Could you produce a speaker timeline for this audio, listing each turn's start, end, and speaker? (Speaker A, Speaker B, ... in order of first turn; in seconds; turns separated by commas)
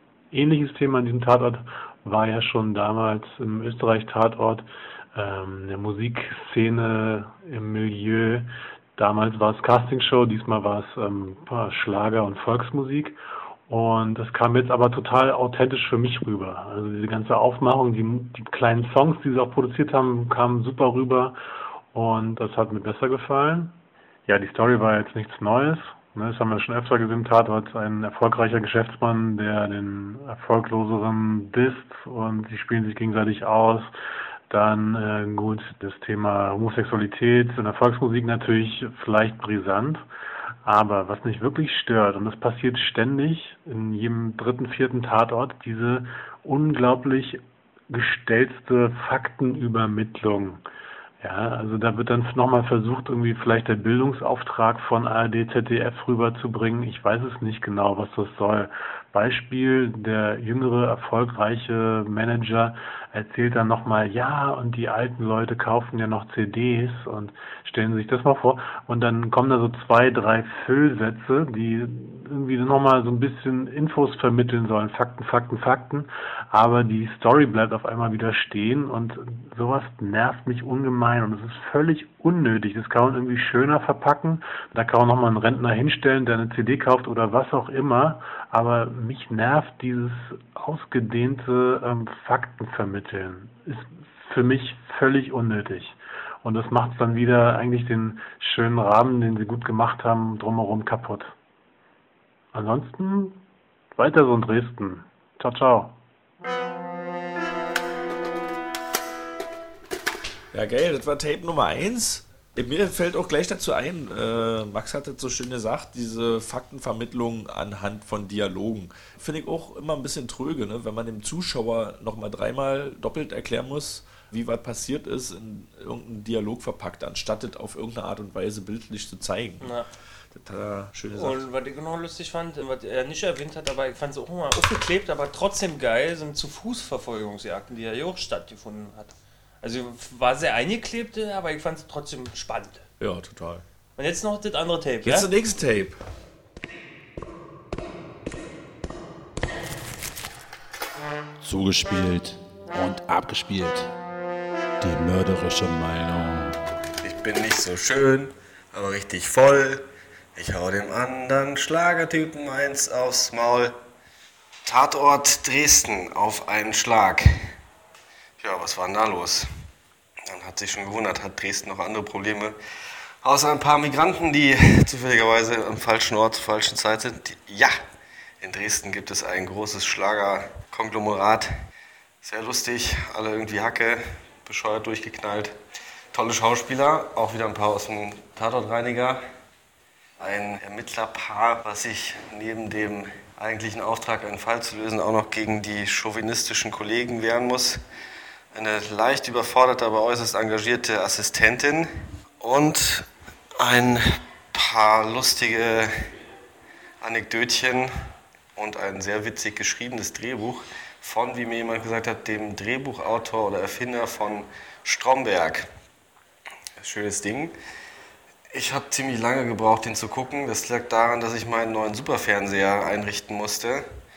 Speaker A: 0.3-13.2, Speaker A: 13.7-21.4, Speaker A: 21.9-23.7, Speaker A: 24.3-33.9, Speaker A: 34.5-40.0, Speaker A: 40.6-50.6, Speaker A: 51.2-101.3, Speaker A: 102.5-103.4, Speaker A: 104.0-106.0, Speaker B: 110.5-129.7, Speaker C: 129.6-129.9, Speaker B: 130.3-131.4, Speaker C: 131.1-142.8, Speaker B: 143.0-143.6, Speaker C: 144.0-145.3, Speaker B: 145.0-146.0, Speaker D: 151.4-153.9, Speaker D: 154.8-156.6, Speaker E: 157.0-159.8, Speaker E: 160.3-163.7, Speaker E: 164.7-167.5, Speaker E: 168.4-169.5, Speaker E: 170.3-172.5, Speaker E: 173.2-177.7, Speaker E: 178.4-181.5, Speaker E: 182.2-185.5, Speaker E: 186.1-189.2, Speaker E: 190.2-197.8, Speaker E: 198.5-201.9, Speaker E: 202.4-205.9, Speaker E: 207.0-207.9, Speaker E: 208.6-215.7, Speaker E: 216.8-217.5, Speaker E: 218.5-223.8